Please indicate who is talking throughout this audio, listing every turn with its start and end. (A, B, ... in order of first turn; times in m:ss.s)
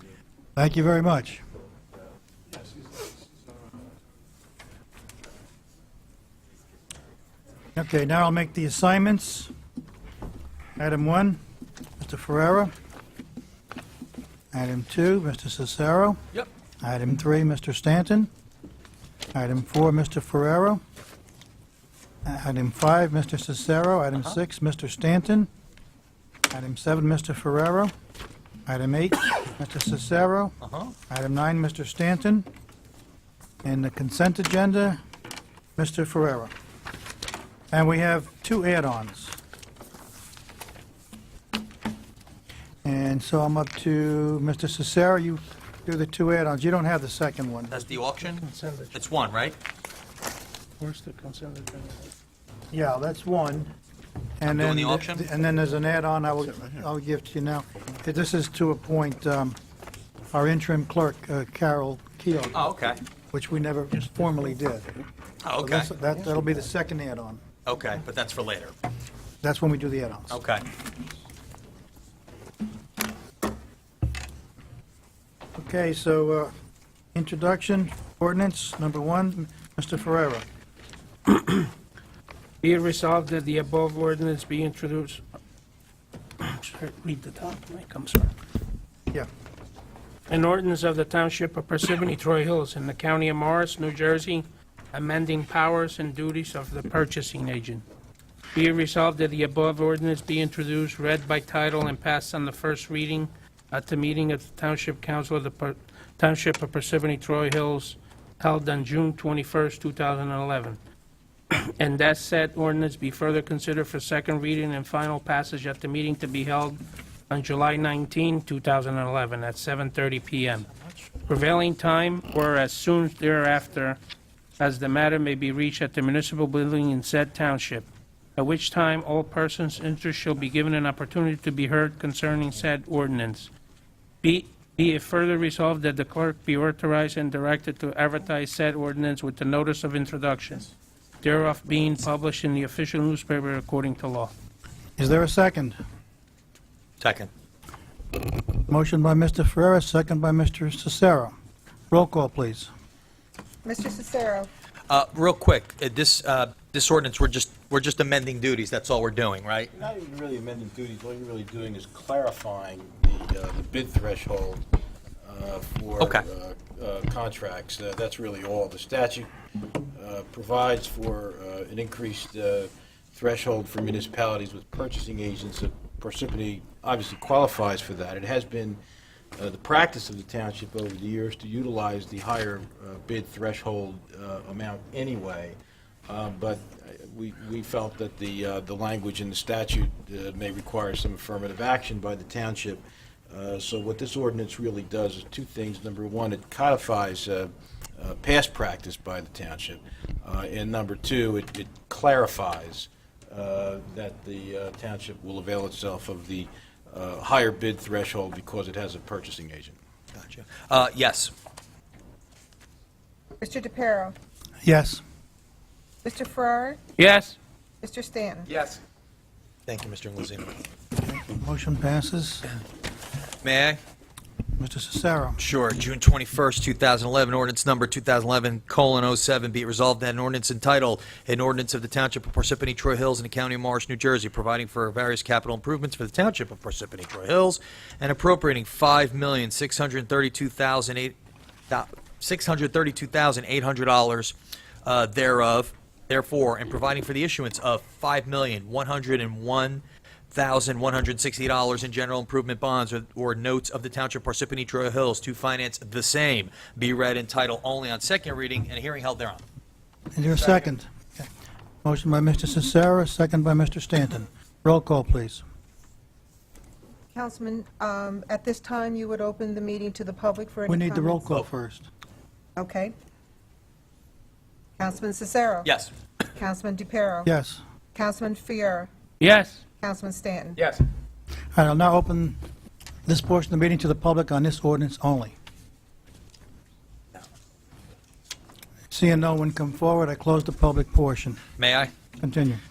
0:00.6-0:01.4 A
0:07.8-0:09.5 A
0:10.8-0:11.4 A
0:12.0-0:12.7 A
0:14.5-0:16.2 A
0:16.8-0:18.3 A
0:19.3-0:20.8 A
0:22.2-0:25.5 A
0:26.5-0:27.9 A
0:28.7-0:30.6 A
0:30.6-0:30.9 B
0:31.1-0:32.5 A
0:33.6-0:35.0 A
0:35.8-0:36.5 A
0:37.7-0:39.4 A
0:42.8-0:47.8 A
0:47.7-0:49.6 B
0:48.2-0:49.0 C
0:50.8-0:52.0 C
0:52.7-0:53.7 A
0:54.4-0:59.6 A
0:54.5-0:55.3 B
1:00.3-1:02.6 A
1:02.5-1:03.0 B
1:03.3-1:04.9 A
1:05.4-1:05.9 B
1:05.6-1:07.4 A
1:07.7-1:08.7 B
1:09.4-1:10.4 A
1:10.3-1:10.6 B
1:15.6-1:16.5 A
1:17.1-1:20.4 A
1:21.3-1:21.7 C
1:22.6-1:25.2 C
1:26.4-1:28.3 C
1:30.3-1:37.8 C
1:38.6-1:50.8 C
1:51.5-2:00.6 C
2:00.6-2:01.1 B
2:01.3-2:04.0 C
2:04.6-2:13.5 C
2:14.2-2:20.7 C
2:21.2-2:24.3 C
2:25.0-2:25.8 A
2:27.0-2:27.3 B
2:28.7-2:31.3 A
2:31.9-2:32.7 A
2:33.6-2:34.5 D
2:34.9-2:39.7 B
2:39.8-2:44.6 E
2:45.2-2:49.3 E
2:49.9-2:58.8 E
2:59.4-3:29.8 E
3:30.1-3:31.3 B
3:33.4-3:34.2 D
3:34.6-3:35.0 A
3:36.0-3:36.8 D
3:37.0-3:37.4 C
3:37.8-3:38.5 D
3:38.5-3:38.8 B
3:39.7-3:40.6 B
3:41.0-3:42.4 A
3:43.4-3:43.8 B
3:44.6-3:45.4 A
3:45.4-4:01.2 B
4:01.7-4:19.4 B
4:20.1-4:21.3 A
4:21.8-4:25.4 A
4:27.1-4:31.2 D
4:30.7-4:31.9 A
4:32.6-4:32.9 D
4:34.8-4:35.7 D
4:35.6-4:35.9 B
4:36.4-4:37.3 D
4:37.3-4:37.6 A
4:37.9-4:38.9 D
4:39.2-4:39.6 C
4:39.8-4:40.6 D
4:41.6-4:42.4 A
4:43.1-4:45.3 A
4:48.9-4:51.4 A
4:51.6-4:51.9 B
4:52.2-4:52.6 A